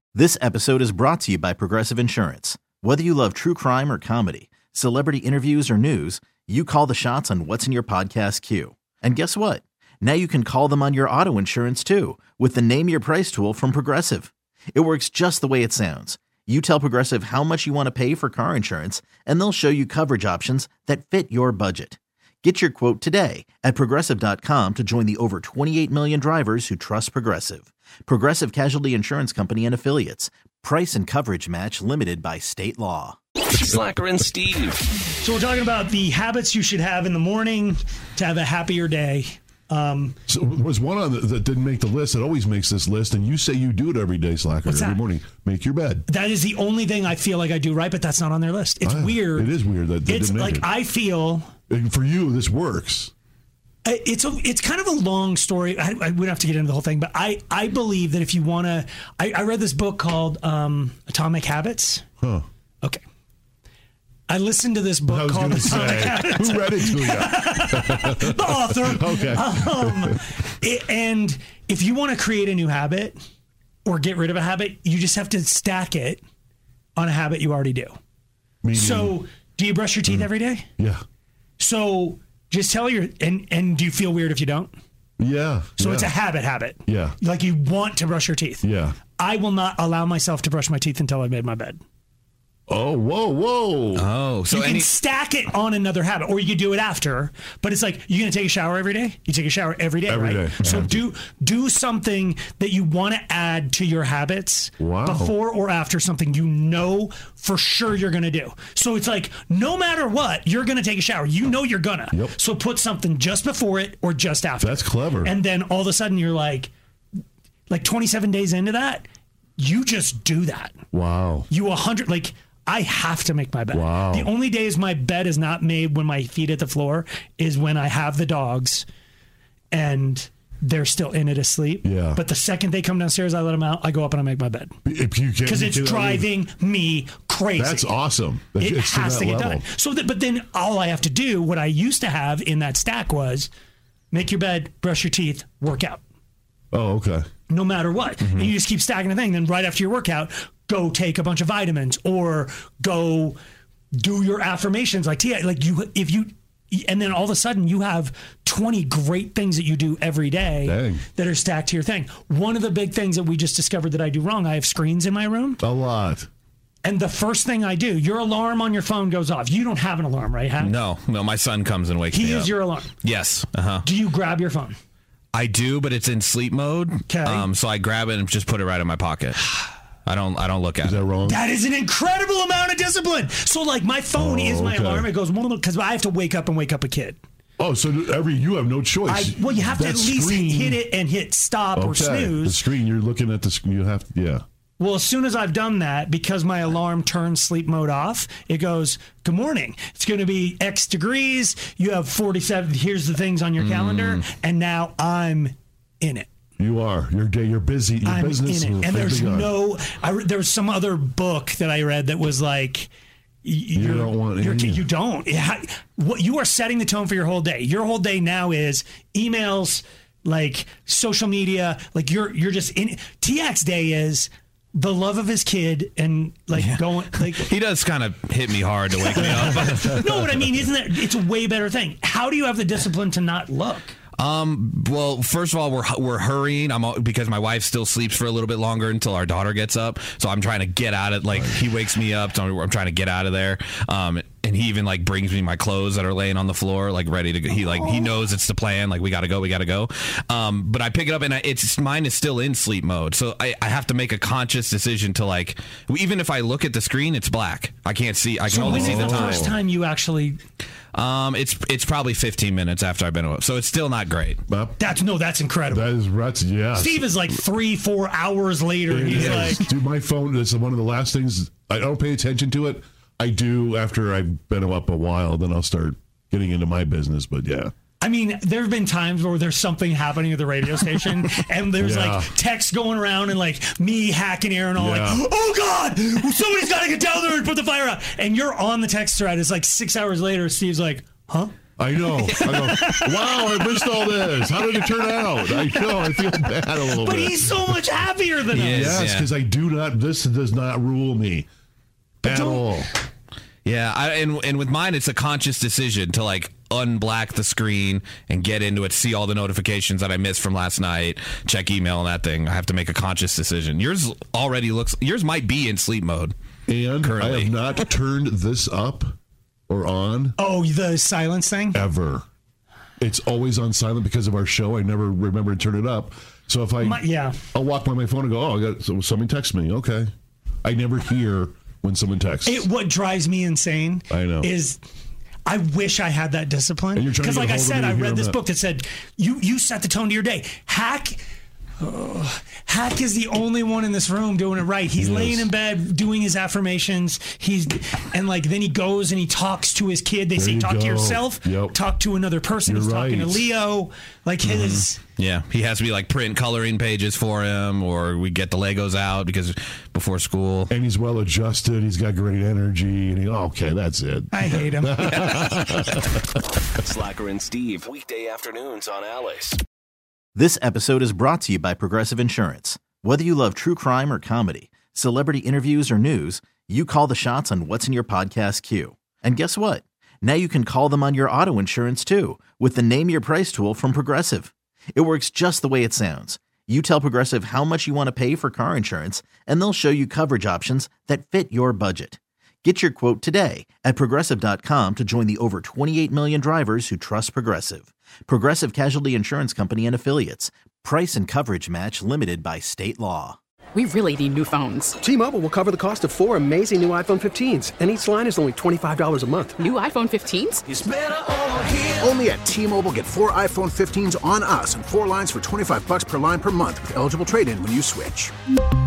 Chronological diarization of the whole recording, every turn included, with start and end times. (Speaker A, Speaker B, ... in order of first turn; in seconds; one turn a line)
Speaker A: 0.1-33.2
Speaker B: 33.6-34.8
Speaker C: 35.2-40.1
Speaker D: 40.3-46.0
Speaker C: 44.6-45.0
Speaker C: 46.1-49.5
Speaker D: 48.8-50.7
Speaker C: 50.0-51.5
Speaker D: 51.7-53.1
Speaker C: 53.8-62.0
Speaker C: 64.3-73.2
Speaker D: 65.1-70.2
Speaker C: 73.8-76.2
Speaker C: 77.0-78.0
Speaker D: 78.6-79.2
Speaker C: 78.7-80.7
Speaker C: 81.6-84.7
Speaker D: 85.2-86.1
Speaker C: 85.8-88.6
Speaker D: 86.8-87.2
Speaker D: 88.6-89.0
Speaker C: 89.2-91.8
Speaker D: 92.7-94.1
Speaker E: 93.9-94.9
Speaker C: 94.5-116.7
Speaker D: 100.1-101.0
Speaker D: 104.8-105.3
Speaker D: 114.6-115.3
Speaker C: 117.7-119.0
Speaker C: 119.6-120.8
Speaker D: 120.9-121.5
Speaker C: 121.5-128.8
Speaker D: 123.7-124.3
Speaker C: 129.7-134.7
Speaker D: 131.8-132.2
Speaker D: 134.8-136.3
Speaker C: 135.4-138.0
Speaker D: 137.6-139.6
Speaker C: 138.5-143.5
Speaker C: 144.1-146.0
Speaker D: 146.7-147.2
Speaker C: 147.5-153.4
Speaker C: 153.9-165.6
Speaker D: 160.6-161.0
Speaker D: 165.6-166.3
Speaker C: 166.8-170.8
Speaker E: 170.6-173.9
Speaker C: 172.1-172.9
Speaker C: 173.8-174.8
Speaker E: 175.3-179.4
Speaker C: 177.1-177.5
Speaker E: 180.0-181.0
Speaker D: 180.8-181.4
Speaker C: 181.2-187.2
Speaker D: 184.1-185.1
Speaker D: 187.6-190.8
Speaker C: 189.1-192.6
Speaker D: 191.7-194.4
Speaker C: 194.8-206.3
Speaker E: 203.6-204.2
Speaker D: 206.6-209.5
Speaker C: 208.0-212.9
Speaker C: 213.4-227.5
Speaker D: 213.7-214.9
Speaker E: 226.5-230.3
Speaker C: 228.9-233.9
Speaker E: 234.2-259.5
Speaker D: 241.3-241.6
Speaker C: 258.5-260.4
Speaker D: 258.6-259.5
Speaker E: 260.9-264.4
Speaker D: 264.5-264.8
Speaker C: 264.8-265.9
Speaker D: 265.7-267.1
Speaker C: 266.7-269.6
Speaker D: 268.9-277.7
Speaker E: 269.1-269.6
Speaker C: 278.0-291.5
Speaker D: 281.8-282.3
Speaker D: 284.8-285.2
Speaker D: 291.8-297.8
Speaker C: 292.2-299.1
Speaker E: 298.5-299.3
Speaker D: 298.6-301.5
Speaker C: 302.2-302.8
Speaker D: 302.2-302.9
Speaker E: 303.6-316.3
Speaker D: 316.7-319.1
Speaker E: 317.0-317.5
Speaker D: 319.7-320.4
Speaker C: 320.4-321.8
Speaker D: 321.7-322.2
Speaker D: 323.0-330.1
Speaker C: 326.8-327.4
Speaker D: 330.6-332.6
Speaker C: 332.4-334.8
Speaker D: 334.1-334.5
Speaker C: 335.4-341.2
Speaker D: 336.9-338.4
Speaker C: 341.8-355.0
Speaker D: 344.9-345.5
Speaker D: 350.4-351.8
Speaker D: 352.6-353.5
Speaker E: 354.4-360.7
Speaker D: 360.7-366.2
Speaker C: 364.3-365.3
Speaker E: 365.1-366.0
Speaker B: 366.9-369.6
Speaker A: 370.3-403.4
Speaker F: 403.8-404.9
Speaker G: 405.0-409.6
Speaker F: 409.6-410.6
Speaker H: 410.7-418.3